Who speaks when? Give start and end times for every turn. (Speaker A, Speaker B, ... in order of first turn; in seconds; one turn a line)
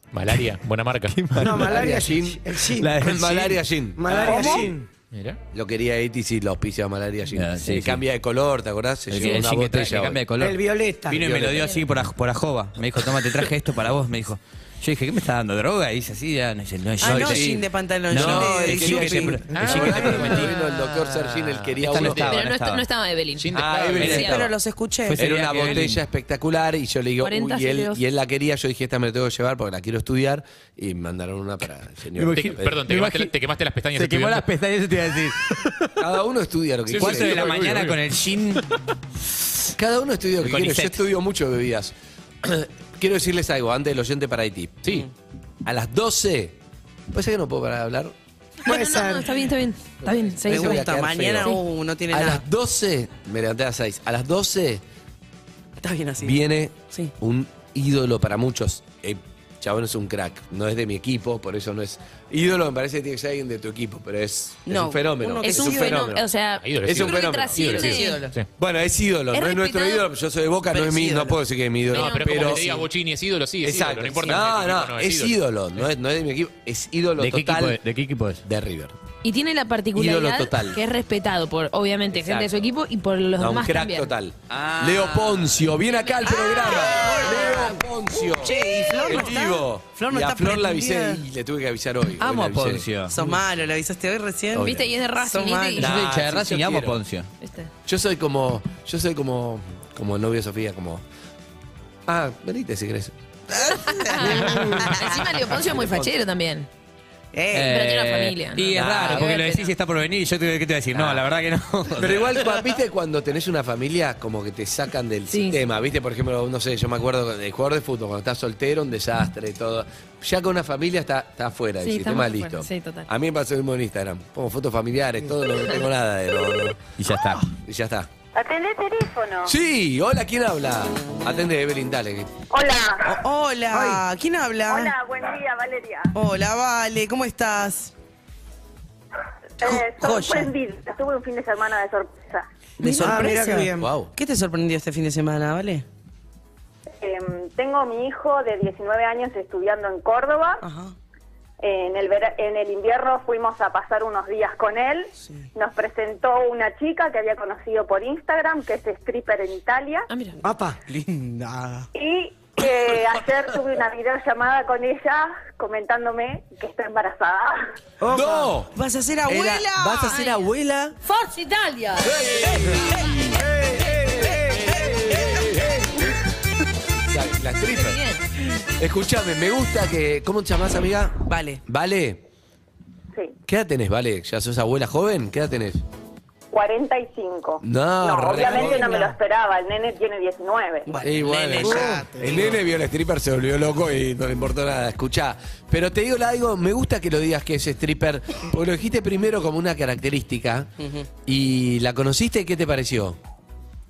Speaker A: 0.1-1.1
Speaker B: 1.1-1.9
Speaker C: 1.3-3.1
Speaker D: 1.6-4.7
Speaker B: 2.7-3.6
Speaker C: 4.0-4.9
Speaker E: 4.2-4.7
Speaker A: 5.1-5.4
Speaker D: 5.5-10.2
Speaker B: 7.3-8.0
Speaker B: 9.1-17.5
Speaker C: 10.4-11.3
Speaker D: 11.1-11.7
Speaker E: 17.0-19.5
Speaker D: 17.0-22.3
Speaker B: 18.1-20.6
Speaker A: 19.5-22.1
Speaker B: 21.8-22.9
Speaker F: 22.2-23.5
Speaker A: 23.4-24.2
Speaker D: 23.5-24.5
Speaker B: 24.0-24.3
Speaker E: 24.0-25.2
Speaker F: 24.0-24.4
Speaker B: 25.1-26.0
Speaker D: 25.2-32.8
Speaker F: 27.2-28.0
Speaker B: 32.1-33.3
Speaker A: 32.3-34.5
Speaker B: 33.9-36.0
Speaker D: 36.0-37.6
Speaker A: 36.9-38.0
Speaker B: 36.9-38.6
Speaker D: 39.8-44.9
Speaker B: 40.4-41.0
Speaker D: 45.6-46.5
Speaker D: 47.1-48.1
Speaker C: 48.6-49.5
Speaker F: 48.6-50.9
Speaker E: 50.4-52.4
Speaker D: 50.5-54.8
Speaker E: 55.8-57.1
Speaker D: 56.2-66.2
Speaker E: 64.7-66.1
Speaker F: 65.4-68.2
Speaker A: 66.6-68.5
Speaker D: 66.8-68.0
Speaker E: 67.7-68.3
Speaker D: 68.5-72.9
Speaker F: 69.3-70.0
Speaker E: 70.7-71.4
Speaker A: 71.9-75.4
Speaker F: 71.9-72.6
Speaker D: 73.6-77.8
Speaker B: 77.2-78.4
Speaker D: 78.4-79.0
Speaker F: 79.2-84.1
Speaker D: 79.9-80.8
Speaker D: 82.1-82.5
Speaker D: 83.4-92.9
Speaker B: 84.5-85.7
Speaker F: 86.0-87.5
Speaker E: 86.2-91.2
Speaker B: 92.2-93.2
Speaker E: 93.1-95.9
Speaker D: 94.5-94.9
Speaker F: 94.6-95.9
Speaker D: 95.8-97.0
Speaker B: 95.8-97.3
Speaker F: 97.4-97.7
Speaker D: 97.8-101.0
Speaker D: 102.1-103.1
Speaker E: 103.5-105.2
Speaker F: 103.9-106.7
Speaker D: 105.3-106.1
Speaker E: 107.3-107.8
Speaker B: 107.5-112.5
Speaker F: 107.6-109.7
Speaker D: 110.9-111.2
Speaker D: 112.0-126.9
Speaker F: 115.3-115.6
Speaker F: 121.8-123.1
Speaker B: 127.0-127.5
Speaker D: 127.5-128.1
Speaker G: 128.3-129.5
Speaker D: 129.4-132.3
Speaker G: 132.5-133.2
Speaker E: 133.0-134.9
Speaker C: 133.7-134.0
Speaker G: 134.7-136.1
Speaker E: 136.1-137.9
Speaker G: 139.6-142.5
Speaker E: 139.6-140.5
Speaker E: 142.8-145.8
Speaker C: 142.8-143.9
Speaker D: 143.2-144.1
Speaker G: 147.0-150.6
Speaker E: 150.6-150.9
Speaker G: 151.6-160.1
Speaker F: 160.1-160.4
Speaker C: 160.4-160.8
Speaker E: 160.9-161.9
Speaker G: 161.9-167.7
Speaker C: 168.0-168.5
Speaker D: 168.1-168.7
Speaker E: 168.7-170.5
Speaker D: 169.3-170.9
Speaker F: 170.1-170.4
Speaker D: 172.0-176.1
Speaker E: 172.4-173.1
Speaker E: 174.2-175.3
Speaker D: 177.0-178.0
Speaker F: 177.7-178.2
Speaker D: 178.8-182.2
Speaker E: 181.3-181.6
Speaker D: 183.5-185.8
Speaker G: 186.5-191.0
Speaker D: 187.6-189.0
Speaker E: 188.4-189.1
Speaker E: 190.8-192.6
Speaker D: 191.0-200.7
Speaker C: 191.6-192.1
Speaker E: 200.8-201.1
Speaker D: 201.2-203.2